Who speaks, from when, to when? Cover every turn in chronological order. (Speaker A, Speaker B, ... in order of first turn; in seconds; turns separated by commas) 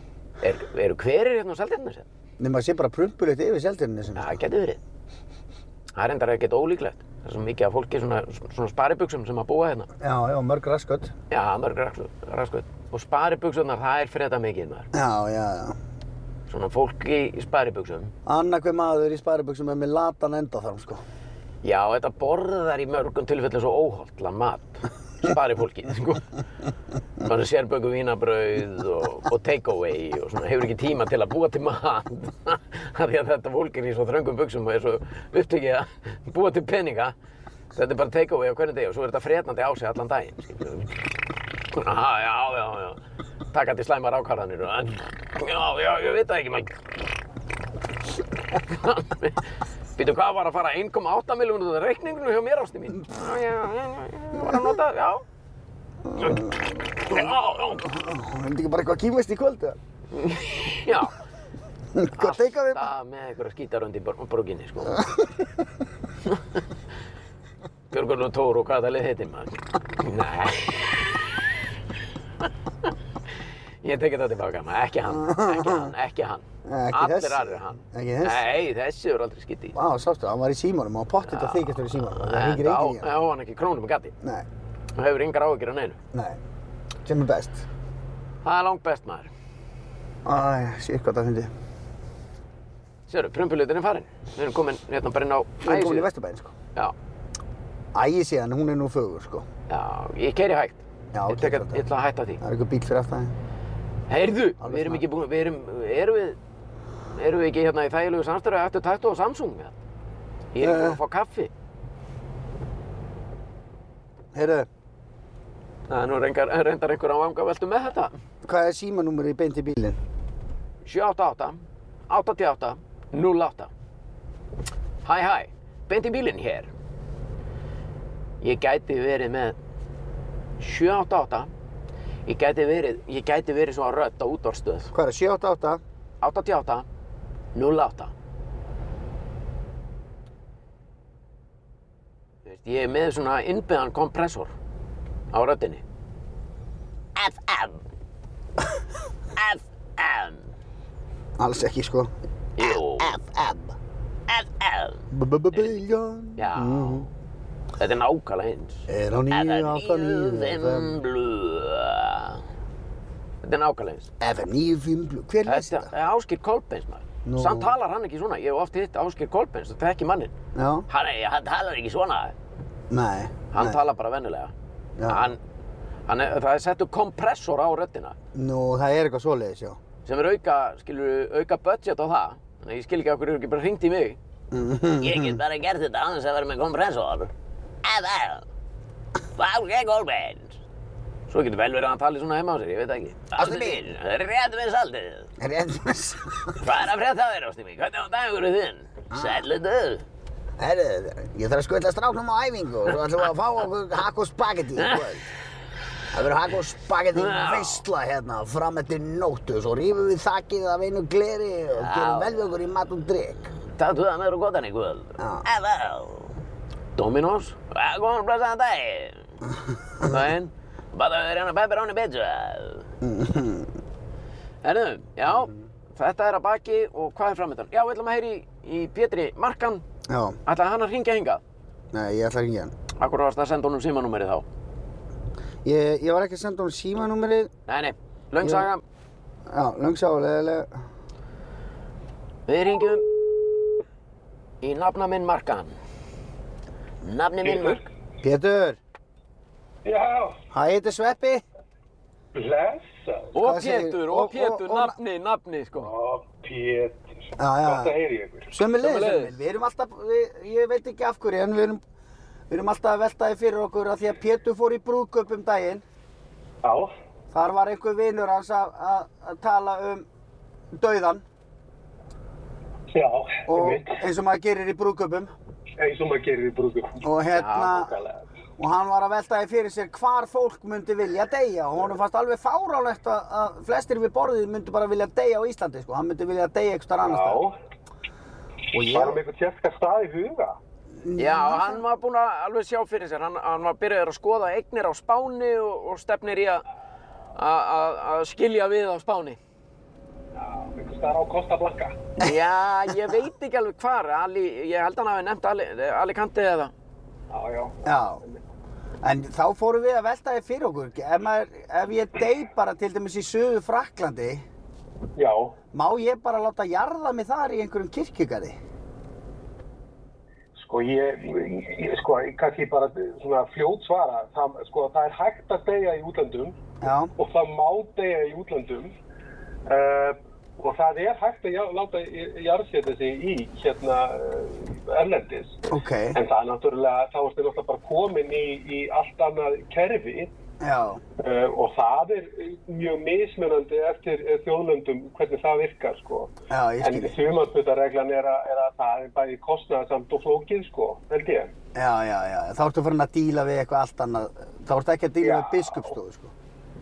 Speaker A: 0.4-2.1, Speaker B: 2.4-4.4, Speaker A: 4.2-4.8, Speaker A: 6.0-9.9, Speaker B: 10.0-11.1, Speaker A: 11.3-14.9, Speaker B: 14.9-15.8, Speaker A: 16.5-18.1, Speaker B: 18.3-21.0, Speaker A: 21.6-26.3, Speaker A: 27.2-37.1, Speaker A: 37.8-40.9, Speaker A: 41.7-43.0, Speaker A: 43.5-46.8, Speaker A: 48.6-49.4, Speaker A: 50.0-55.2, Speaker B: 56.0-59.8, Speaker A: 56.2-56.4, Speaker A: 57.0-57.9, Speaker A: 60.1-61.2, Speaker B: 61.9-62.9, Speaker A: 62.1-65.1, Speaker B: 65.0-65.3, Speaker A: 66.3-66.6, Speaker A: 67.9-71.5, Speaker A: 73.8-79.8, Speaker B: 75.1-75.9, Speaker B: 76.7-78.4, Speaker B: 79.8-83.1, Speaker A: 81.3-84.1, Speaker A: 85.0-86.0, Speaker B: 86.1-86.4, Speaker B: 87.0-87.7, Speaker A: 88.4-89.3, Speaker B: 90.2-91.5, Speaker A: 93.1-96.1, Speaker B: 95.6-96.5, Speaker B: 97.9-99.5, Speaker A: 99.7-102.4, Speaker B: 101.1-101.8, Speaker B: 102.4-103.3, Speaker A: 104.1-106.4, Speaker B: 104.6-105.0, Speaker A: 107.2-109.8, Speaker A: 110.5-111.5, Speaker B: 110.6-111.0, Speaker B: 114.3-114.7, Speaker A: 115.9-118.1, Speaker B: 118.4-120.0, Speaker A: 120.8-123.7, Speaker A: 125.0-126.7, Speaker A: 128.4-129.6, Speaker A: 130.6-131.5, Speaker A: 132.3-134.9, Speaker B: 134.9-135.8, Speaker A: 136.2-136.9, Speaker A: 137.6-138.1, Speaker A: 142.4-144.5, Speaker A: 145.3-145.8, Speaker A: 147.2-147.8, Speaker A: 149.4-150.5, Speaker B: 151.4-153.8, Speaker A: 152.6-153.2, Speaker A: 154.3-155.7, Speaker B: 155.1-157.1, Speaker A: 156.4-157.1, Speaker A: 157.8-162.4, Speaker B: 158.9-161.0, Speaker A: 163.4-164.1, Speaker B: 164.2-165.9, Speaker A: 165.4-170.3, Speaker B: 167.2-167.7, Speaker B: 170.6-170.9, Speaker A: 170.9-172.3, Speaker B: 172.9-173.8, Speaker A: 173.5-174.5, Speaker B: 175.0-175.3, Speaker A: 175.1-175.4, Speaker A: 176.1-178.2, Speaker B: 178.3-179.8, Speaker A: 180.1-184.2, Speaker B: 184.5-185.4, Speaker A: 185.0-187.3, Speaker A: 187.8-188.5, Speaker A: 189.4-190.6, Speaker A: 191.3-195.3, Speaker B: 193.4-193.8, Speaker B: 195.4-196.6, Speaker A: 196.6-200.1, Speaker B: 199.1-199.4, Speaker B: 200.6-205.3, Speaker A: 204.8-205.1, Speaker B: 206.1-213.5, Speaker A: 207.1-207.8, Speaker A: 211.8-212.5, Speaker A: 213.7-216.3, Speaker B: 215.2-215.4, Speaker A: 217.0-219.3, Speaker A: 220.0-222.9, Speaker B: 223.0-223.7, Speaker A: 224.6-229.8, Speaker B: 225.3-225.6, Speaker B: 230.1-230.4, Speaker A: 230.5-231.4, Speaker B: 231.9-232.7, Speaker A: 233.0-234.4, Speaker B: 235.6-237.5, Speaker A: 237.7-238.8, Speaker B: 238.4-238.7, Speaker B: 239.5-240.8, Speaker A: 242.5-243.2, Speaker A: 244.6-245.8, Speaker A: 247.0-247.9, Speaker C: 247.4-247.8, Speaker B: 248.2-248.8, Speaker C: 249.8-250.4, Speaker B: 250.5-251.4, Speaker C: 252.3-253.3, Speaker A: 253.3-255.9, Speaker B: 253.4-255.0, Speaker C: 255.8-258.5, Speaker B: 257.4-257.9, Speaker B: 258.5-261.8, Speaker A: 258.8-259.4, Speaker B: 262.5-265.8, Speaker C: 266.6-266.9, Speaker B: 267.3-270.1, Speaker B: 270.7-271.2, Speaker C: 272.9-274.0, Speaker B: 273.5-275.3, Speaker C: 275.8-277.0, Speaker B: 277.0-277.9, Speaker A: 277.4-277.8, Speaker C: 277.7-278.3, Speaker B: 278.6-287.4, Speaker C: 287.0-287.6, Speaker B: 288.8-289.2, Speaker C: 288.9-290.6, Speaker B: 291.0-291.8, Speaker A: 291.2-296.6, Speaker A: 297.4-299.4, Speaker C: 300.4-302.0, Speaker A: 302.2-306.7, Speaker C: 307.3-308.4, Speaker B: 307.9-308.2, Speaker B: 309.0-314.4, Speaker C: 315.2-315.6, Speaker B: 315.7-318.6, Speaker C: 320.6-326.6, Speaker B: 326.8-327.1, Speaker C: 327.2-328.9, Speaker C: 329.7-340.3, Speaker B: 335.7-336.2, Speaker B: 340.6-341.0, Speaker C: 341.2-351.5, Speaker B: 346.5-347.1, Speaker B: 351.8-356.3, Speaker C: 355.2-356.0